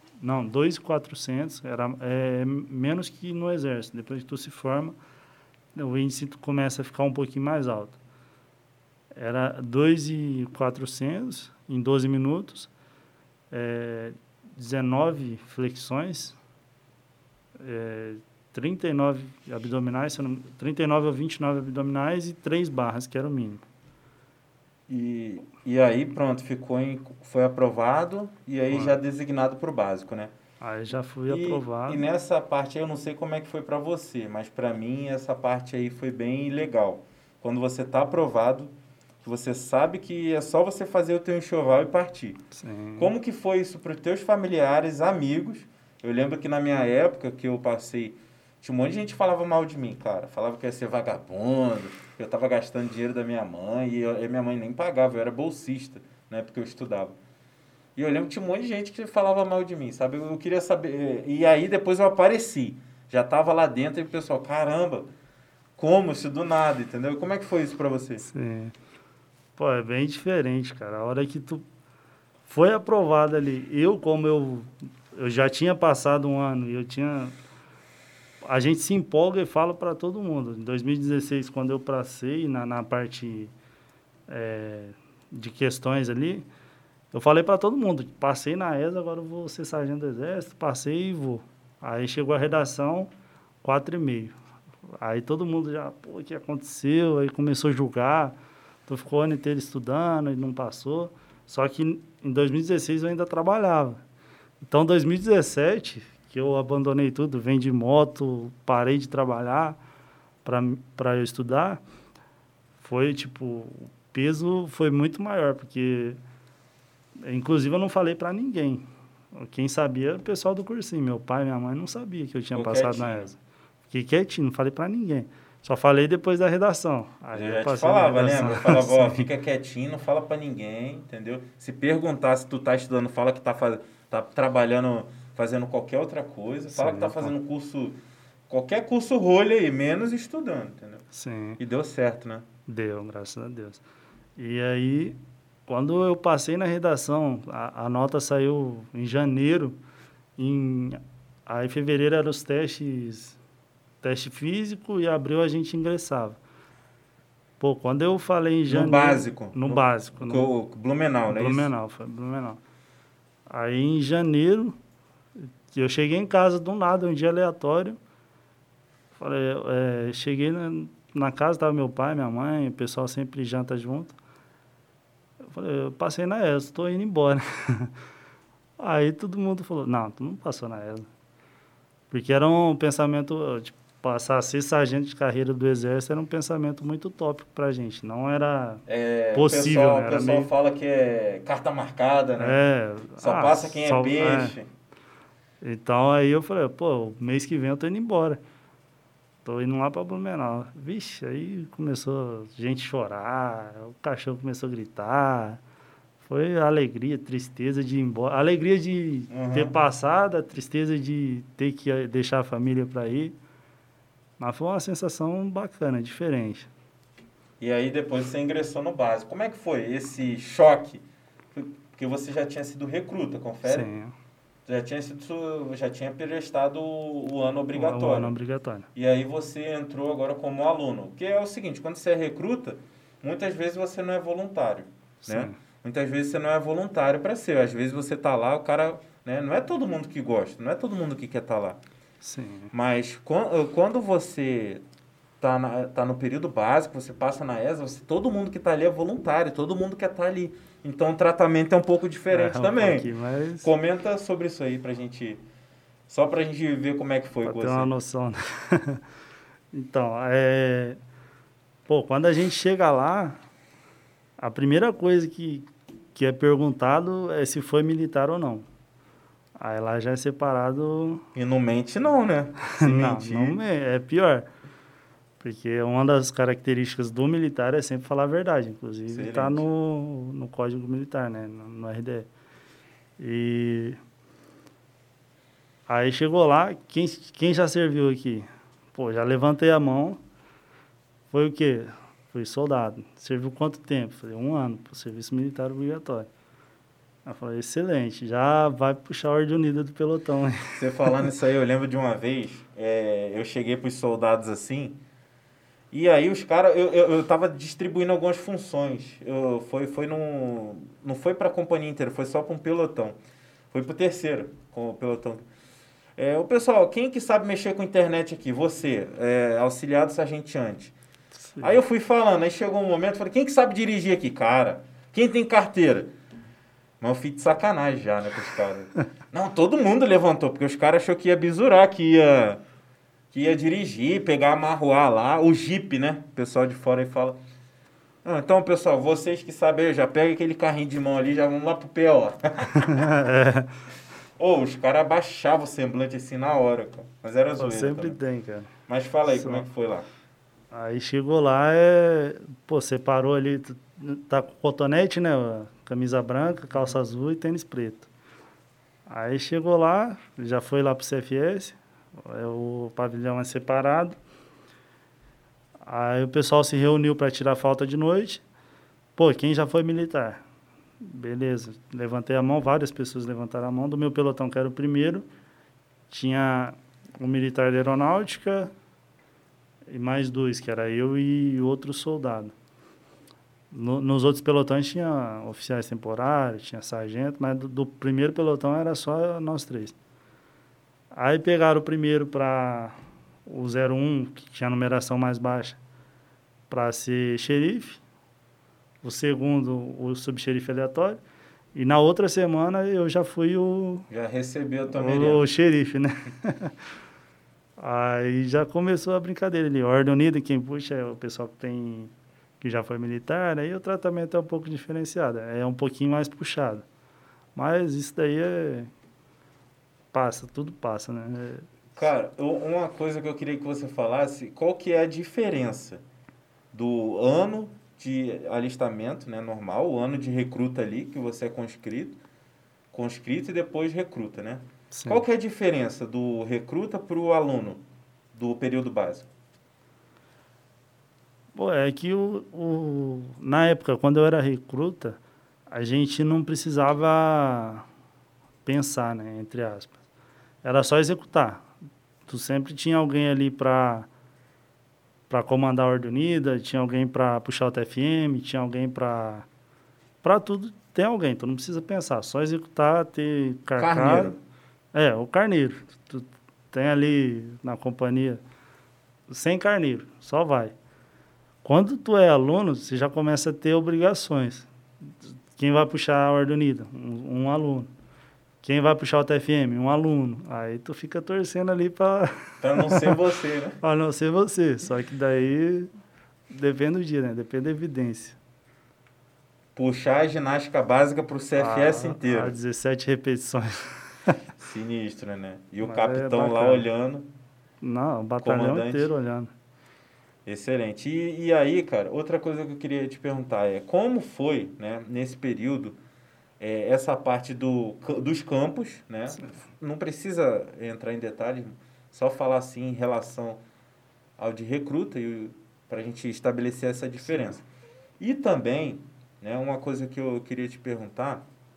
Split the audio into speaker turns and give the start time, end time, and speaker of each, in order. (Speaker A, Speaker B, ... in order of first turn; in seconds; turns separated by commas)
Speaker A: 0.2-5.0, Speaker A: 5.7-8.0, Speaker A: 9.1-12.7, Speaker A: 13.5-16.4, Speaker A: 17.6-23.6, Speaker B: 24.9-30.3, Speaker A: 28.7-29.0, Speaker A: 30.6-32.0, Speaker B: 31.3-42.4, Speaker A: 42.5-43.1, Speaker B: 43.0-57.1, Speaker B: 58.0-65.1, Speaker B: 65.8-68.2, Speaker A: 68.3-68.7, Speaker A: 69.6-71.6, Speaker A: 72.5-77.3, Speaker A: 78.4-83.5, Speaker A: 84.3-86.5, Speaker A: 87.1-93.1, Speaker A: 93.6-94.3, Speaker A: 95.0-104.0, Speaker A: 104.6-109.8, Speaker A: 110.4-111.8, Speaker A: 112.8-116.2, Speaker A: 117.2-123.4, Speaker B: 122.5-123.3, Speaker A: 123.9-129.2, Speaker B: 127.3-138.0, Speaker A: 136.7-137.3, Speaker B: 138.5-141.0, Speaker A: 141.1-141.6, Speaker B: 141.6-142.4, Speaker A: 142.7-143.8, Speaker A: 144.4-149.8, Speaker A: 150.4-153.4, Speaker A: 154.0-156.4, Speaker A: 157.6-160.5, Speaker B: 158.7-161.7, Speaker A: 161.3-162.6, Speaker A: 163.5-164.8, Speaker A: 165.4-168.0, Speaker A: 169.2-174.2, Speaker A: 175.4-177.9, Speaker A: 178.8-181.1, Speaker A: 182.1-188.8, Speaker B: 188.8-192.6, Speaker A: 189.3-190.5, Speaker A: 192.4-194.6, Speaker B: 193.2-194.7, Speaker A: 195.6-198.4, Speaker A: 199.4-205.6, Speaker A: 206.2-213.4, Speaker B: 209.3-209.7, Speaker A: 214.4-216.7, Speaker B: 217.6-223.9, Speaker A: 223.6-224.1, Speaker B: 224.7-228.3, Speaker A: 227.7-228.9, Speaker B: 228.9-241.8, Speaker A: 235.2-235.6, Speaker A: 242.2-242.7, Speaker B: 242.7-244.8, Speaker B: 245.4-253.1, Speaker A: 252.3-253.7, Speaker B: 253.6-255.4, Speaker B: 256.1-257.9, Speaker A: 257.4-259.0, Speaker A: 259.7-261.0, Speaker A: 261.9-263.4, Speaker A: 264.4-268.6, Speaker A: 269.6-271.2, Speaker B: 271.3-273.6, Speaker A: 272.7-274.5, Speaker A: 275.4-282.3, Speaker B: 279.1-279.6, Speaker A: 283.2-284.0, Speaker A: 285.9-290.2, Speaker A: 291.3-296.3, Speaker A: 297.2-301.1, Speaker B: 300.7-305.0, Speaker B: 305.9-313.1, Speaker B: 313.7-315.4, Speaker B: 316.2-320.9, Speaker A: 321.5-321.8, Speaker B: 321.6-326.1, Speaker B: 327.0-332.6, Speaker B: 333.3-337.4, Speaker B: 338.2-343.1, Speaker A: 342.7-343.7, Speaker B: 344.4-348.2, Speaker A: 347.6-348.7, Speaker B: 348.9-350.1, Speaker A: 349.3-349.6, Speaker A: 350.7-358.1, Speaker A: 359.1-364.2, Speaker A: 365.8-368.4, Speaker A: 369.1-370.4, Speaker A: 371.0-375.2, Speaker A: 376.1-378.7, Speaker A: 379.9-382.5, Speaker A: 383.7-389.9, Speaker A: 391.1-395.8, Speaker A: 396.7-398.0, Speaker A: 399.0-401.2, Speaker A: 401.7-404.1, Speaker B: 404.1-405.4, Speaker A: 404.9-406.8, Speaker A: 407.8-416.8, Speaker A: 417.5-418.9, Speaker A: 420.1-421.7, Speaker B: 421.9-426.0, Speaker B: 426.7-432.2, Speaker B: 432.9-437.8, Speaker A: 434.9-435.2, Speaker B: 438.3-439.3, Speaker A: 441.5-445.2, Speaker A: 445.7-447.9, Speaker A: 448.6-449.9, Speaker A: 450.6-451.7, Speaker A: 452.2-454.1, Speaker A: 455.3-459.4, Speaker A: 460.2-464.4, Speaker B: 463.8-464.4, Speaker A: 464.9-468.4, Speaker A: 469.3-470.7, Speaker A: 471.6-474.7, Speaker A: 475.2-477.9, Speaker A: 478.6-483.2, Speaker B: 482.6-483.8, Speaker A: 483.8-485.9, Speaker A: 486.5-488.4, Speaker B: 489.8-492.5, Speaker A: 491.6-494.4, Speaker B: 494.6-497.3, Speaker A: 495.8-496.9, Speaker A: 497.8-499.5, Speaker B: 498.4-499.1, Speaker B: 500.4-506.0, Speaker B: 506.6-513.6, Speaker B: 514.4-517.6, Speaker B: 518.2-521.4